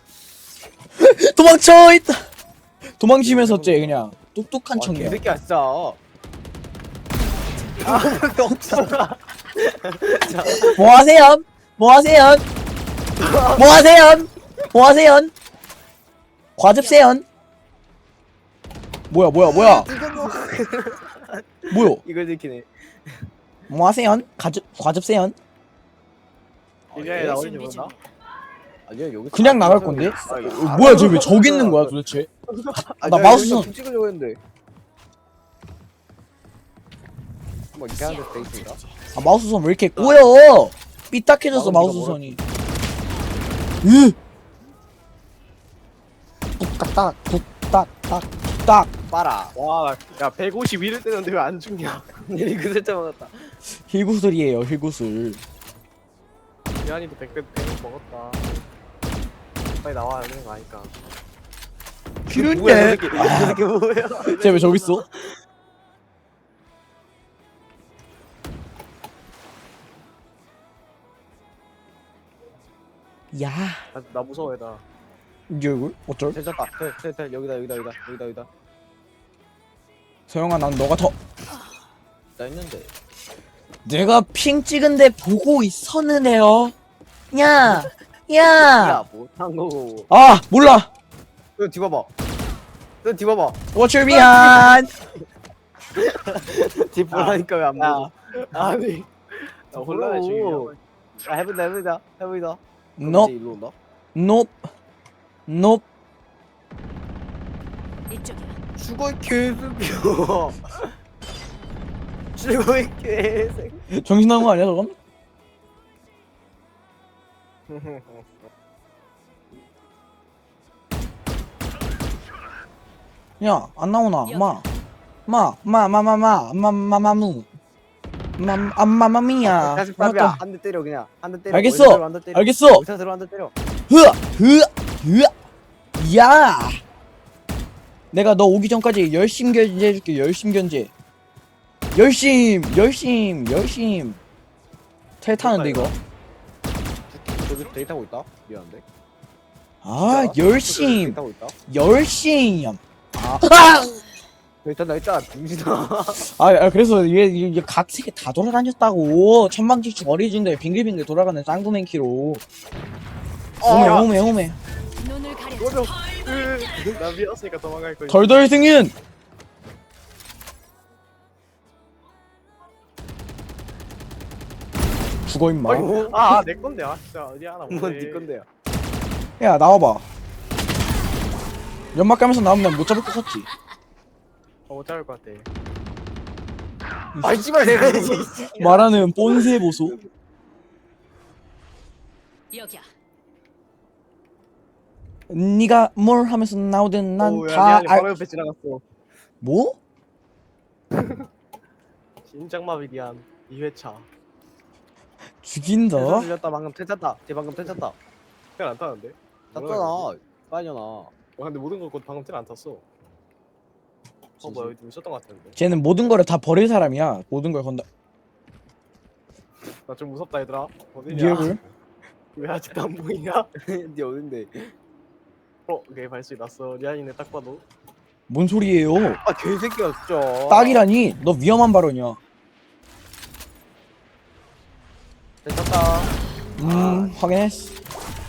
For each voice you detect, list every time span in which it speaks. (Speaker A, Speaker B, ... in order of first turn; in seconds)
Speaker A: 1.0-2.3, 3.0-5.2, 10.6-12.4, 13.6-15.3, 16.6-17.2, 19.1-19.9, 21.7-22.0, 23.7-25.4, 29.3-32.3, 33.0-33.7, 39.1-42.4, 43.8-44.2, 46.6-48.9, 53.9-55.4, 62.3-63.6, 64.2-65.0, 73.3-73.8, 75.5-76.4, 80.3-81.1, 83.9-86.7, 87.3-89.0, 90.1-90.9, 93.7-94.9, 103.0-103.3, 104.2-104.7, 105.5-105.8, 113.9-115.0, 123.4-124.7, 125.3-127.5, 128.4-130.4, 131.5-132.8, 133.9-135.3, 136.0-136.8, 138.1-140.9, 141.9-144.2, 145.2-145.9, 149.8-154.0, 156.2-162.4, 163.6-164.6, 168.1-168.9, 175.3-175.9, 179.4-180.1, 181.9-183.5, 187.2-189.9, 195.3-198.1, 199.4-199.8, 205.4-206.3, 215.6-217.8, 221.1-221.6, 228.3-229.2, 230.5-232.2, 236.6-237.7
Speaker B: 3.2-4.0, 4.8-6.0, 7.8-10.8, 13.2-13.6, 19.4-23.3, 26.9-27.5, 28.9-31.9, 33.0-34.4, 37.7-38.8, 40.0-40.2, 41.5-42.4, 49.1-49.5, 52.2-53.6, 62.3-64.5, 76.3-78.5, 82.4-82.9, 88.4-90.1, 91.6-92.1, 93.0-93.6, 96.0-98.1, 99.7-103.7, 108.8-110.9, 112.4-113.8, 129.5-133.5, 147.1-148.8, 150.1-151.6, 154.6-156.3, 163.6-164.1, 175.7-176.3, 177.7-178.5, 187.2-188.7, 206.0-208.0, 209.5-211.1, 214.4-214.8, 223.6-224.7, 229.2-230.8, 235.4-237.1
Speaker C: 7.6-8.0, 27.2-28.0, 38.0-39.0, 108.1-108.6, 124.3-124.6, 165.0-167.0, 192.5-192.9
Speaker D: 7.8-9.1, 26.9-27.9, 30.3-31.5, 32.5-33.0, 49.6-52.1, 56.8-58.6, 59.8-60.9, 64.2-64.9, 73.9-74.8, 97.1-100.8, 117.7-118.2, 145.4-145.9, 163.7-164.2, 165.6-168.6, 175.7-178.3, 184.7-185.5, 197.2-198.8, 200.9-201.3, 202.2-204.1, 208.6-210.1, 211.4-212.8, 214.4-215.6, 219.9-221.7, 222.4-223.5, 225.7-227.6